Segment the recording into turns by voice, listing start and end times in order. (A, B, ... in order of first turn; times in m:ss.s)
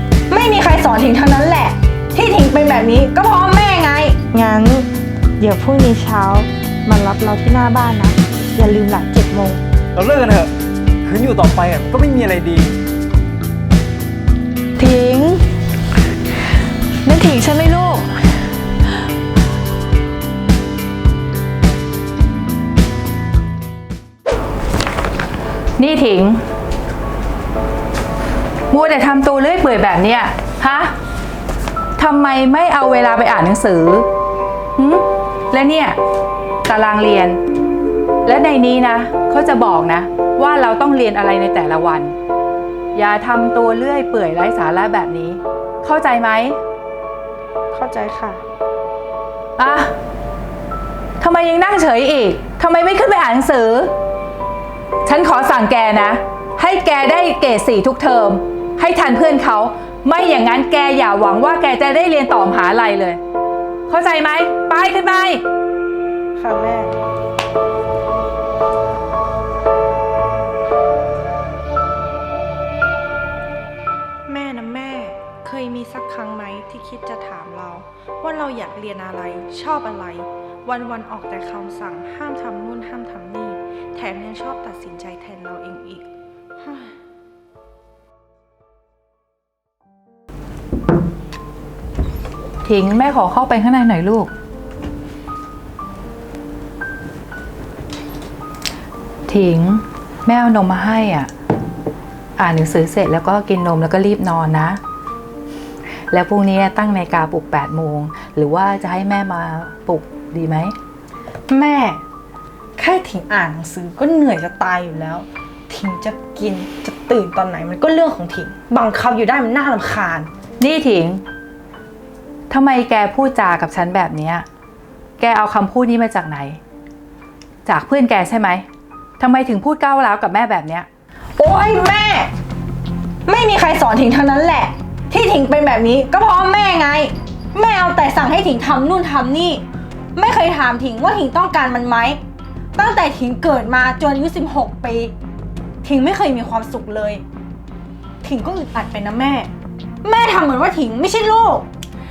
0:00.3-0:04.9 A
0:05.4-0:09.6 A
0:10.0-0:10.5 B
0:11.0-0:12.7 B
0:17.1-0:18.0 C
0:25.8-0:26.4 C
0:28.7-0:30.9 C
0:32.0-0:34.0 C
0:34.8-0:36.0 C
0:36.6-0:37.4 C
0:38.2-0:42.1 C
0:42.9-0:46.6 C
0:47.7-0:48.4 A
0:49.6-0:49.9 C
0:51.2-0:53.9 C
0:55.0-1:03.2 C
1:03.9-1:05.4 C
1:06.4-1:06.9 A
1:14.3-1:26.1 A
1:26.6-1:26.9 A
1:32.6-1:34.3 C
1:39.3-1:41.3 C
1:42.4-1:44.8 C
1:46.1-1:50.7 C
1:51.5-1:52.0 A
1:52.8-2:00.3 A
2:00.6-2:01.2 C
2:02.5-2:04.4 C
2:05.2-2:06.6 C
2:07.6-2:08.6 C
2:09.2-2:10.9 C
2:11.4-2:12.3 A
2:13.2-2:22.2 A
2:22.7-2:25.1 A
2:25.8-2:27.2 A
2:28.2-2:29.5 A
2:30.0-2:31.7 A